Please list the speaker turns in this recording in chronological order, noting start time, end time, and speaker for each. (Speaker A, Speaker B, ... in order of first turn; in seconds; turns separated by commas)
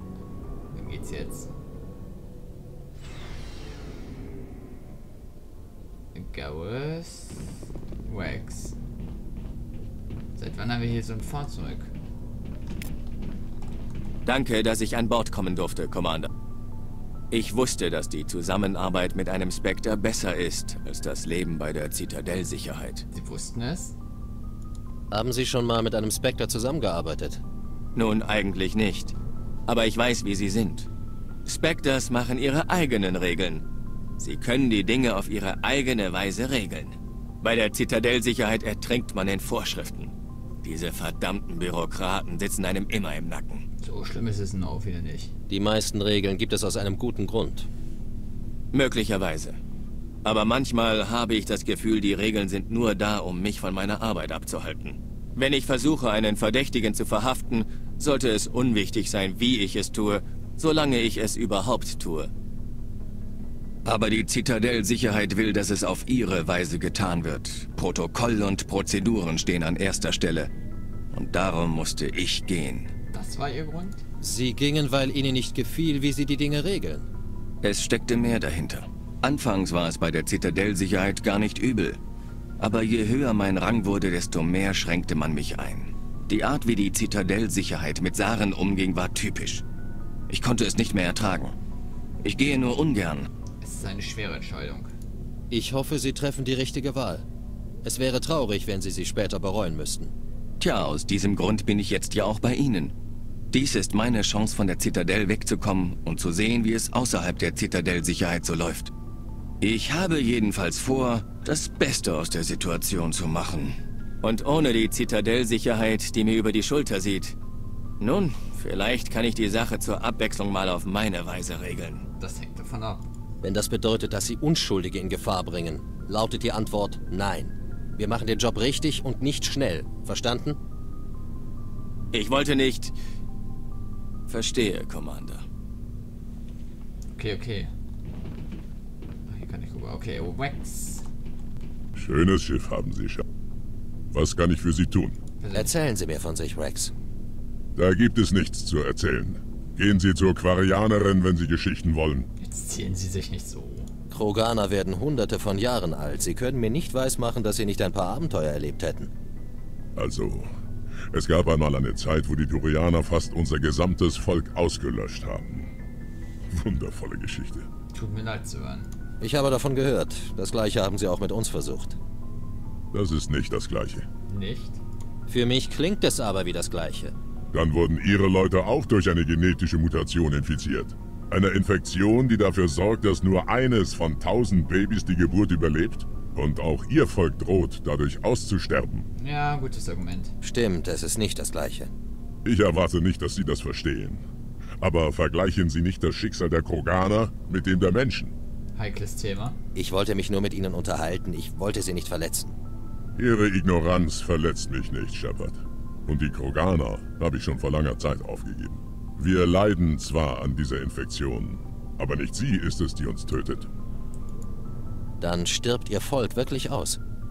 Speaker A: 0.7-1.5, Speaker A: 6.1-7.5, Speaker A: 8.0-8.8, Speaker A: 10.3-11.9, Speaker B: 14.2-16.3, Speaker B: 17.3-23.0, Speaker A: 23.1-23.9, Speaker C: 25.1-27.4, Speaker B: 27.9-29.1, Speaker B: 29.7-30.9, Speaker B: 31.4-33.6, Speaker B: 34.2-43.6, Speaker A: 43.8-45.3, Speaker C: 45.5-47.7, Speaker B: 48.7-49.5, Speaker B: 50.2-62.3, Speaker B: 63.8-70.5, Speaker B: 71.1-72.9, Speaker A: 73.1-74.0, Speaker C: 74.2-77.0, Speaker B: 77.6-82.0, Speaker B: 82.6-89.6, Speaker B: 90.3-91.5, Speaker B: 92.2-93.3, Speaker A: 93.6-94.9, Speaker C: 95.5-97.2, Speaker C: 97.8-100.1, Speaker B: 100.6-102.9, Speaker B: 103.5-108.9, Speaker B: 109.6-117.3, Speaker B: 118.0-122.0, Speaker A: 122.2-123.1, Speaker C: 123.4-130.6, Speaker B: 132.1-132.9, Speaker B: 134.3-135.4, Speaker A: 137.2-137.7, Speaker A: 139.3-141.0, Speaker D: 141.9-143.2, Speaker D: 144.1-145.2, Speaker A: 145.4-145.7, Speaker C: 145.5-146.9, Speaker D: 147.8-152.3, Speaker A: 152.4-153.9, Speaker C: 154.1-159.1, Speaker D: 159.9-160.5, Speaker D: 161.1-165.7, Speaker D: 166.5-167.7, Speaker A: 167.9-168.9, Speaker C: 169.2-172.0, Speaker D: 172.9-174.0, Speaker A: 174.3-174.8, Speaker C: 175.3-177.1, Speaker D: 177.5-189.1, Speaker A: 189.2-190.3, Speaker C: 190.4-191.9, Speaker D: 192.4-194.2, Speaker D: 194.8-198.3, Speaker A: 198.8-199.6, Speaker C: 199.7-202.5, Speaker D: 203.2-213.7, Speaker C: 215.2-217.0